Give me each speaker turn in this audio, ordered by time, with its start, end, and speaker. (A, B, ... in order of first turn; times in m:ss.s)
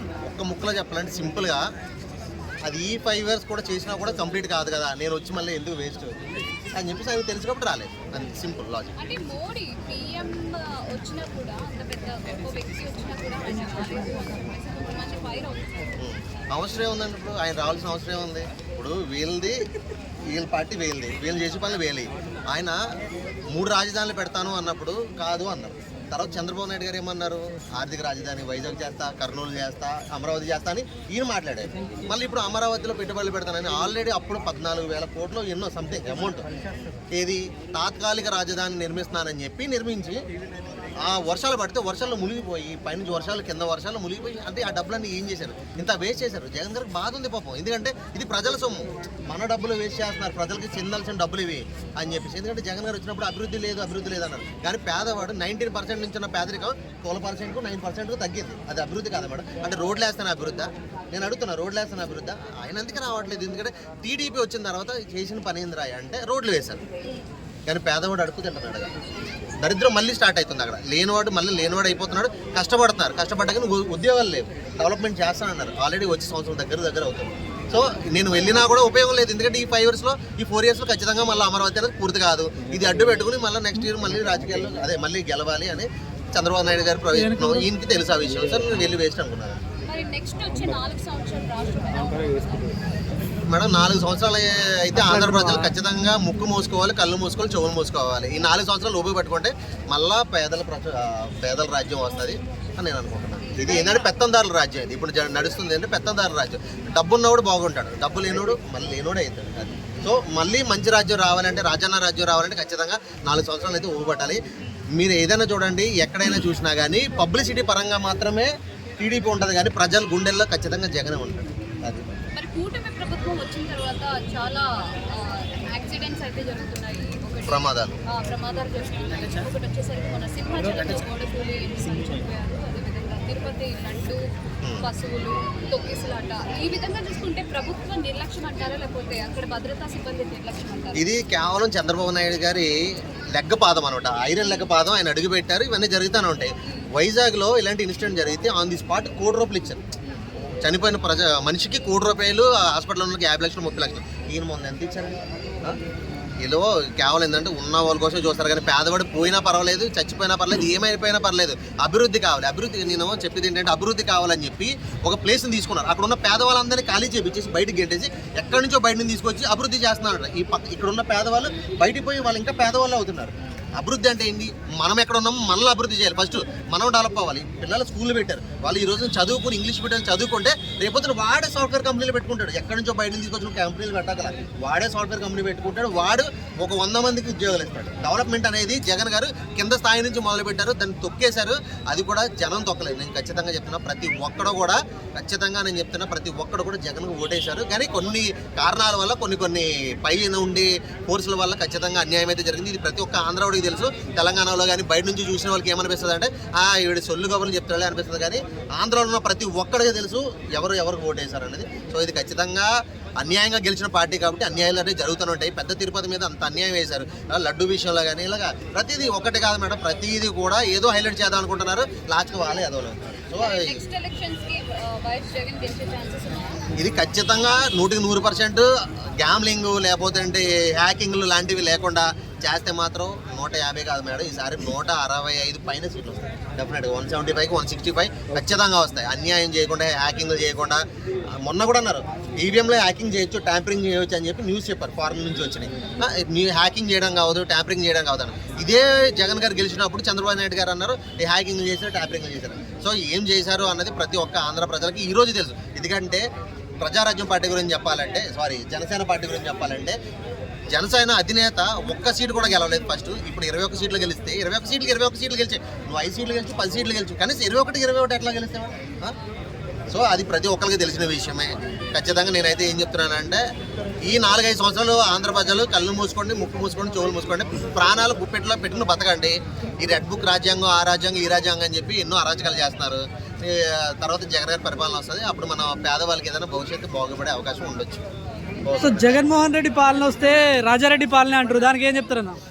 0:00.2-0:01.7 A
0:02.7-0:09.0 A
0:09.0-0:15.9 B
0:16.0-0:19.6 A
0:20.3-0:22.8 A
0:23.5-0:36.5 A
0:37.1-0:40.2 A
0:41.0-1:06.8 A
1:07.7-1:08.9 A
1:09.6-1:29.6 A
1:27.1-1:27.6 C
1:29.9-1:32.8 B
1:33.5-1:54.4 A
1:35.1-1:35.5 C
1:43.5-1:44.1 B
1:55.0-2:02.1 A
2:02.3-2:14.2 B
2:07.5-2:08.0 A
2:14.8-2:21.0 B
2:21.0-2:22.7 A
2:23.3-2:29.8 A
2:26.6-2:26.9 B
2:30.6-2:35.8 A
2:36.4-3:43.8 A
3:43.4-3:46.6 B
3:46.8-3:48.7 A
3:49.2-4:00.8 A
4:01.4-4:16.3 A
4:16.8-4:20.0 A
4:20.7-4:29.2 A
4:29.9-4:33.4 A
4:34.0-4:48.0 A
4:48.6-4:49.3 A
4:48.8-4:52.4 C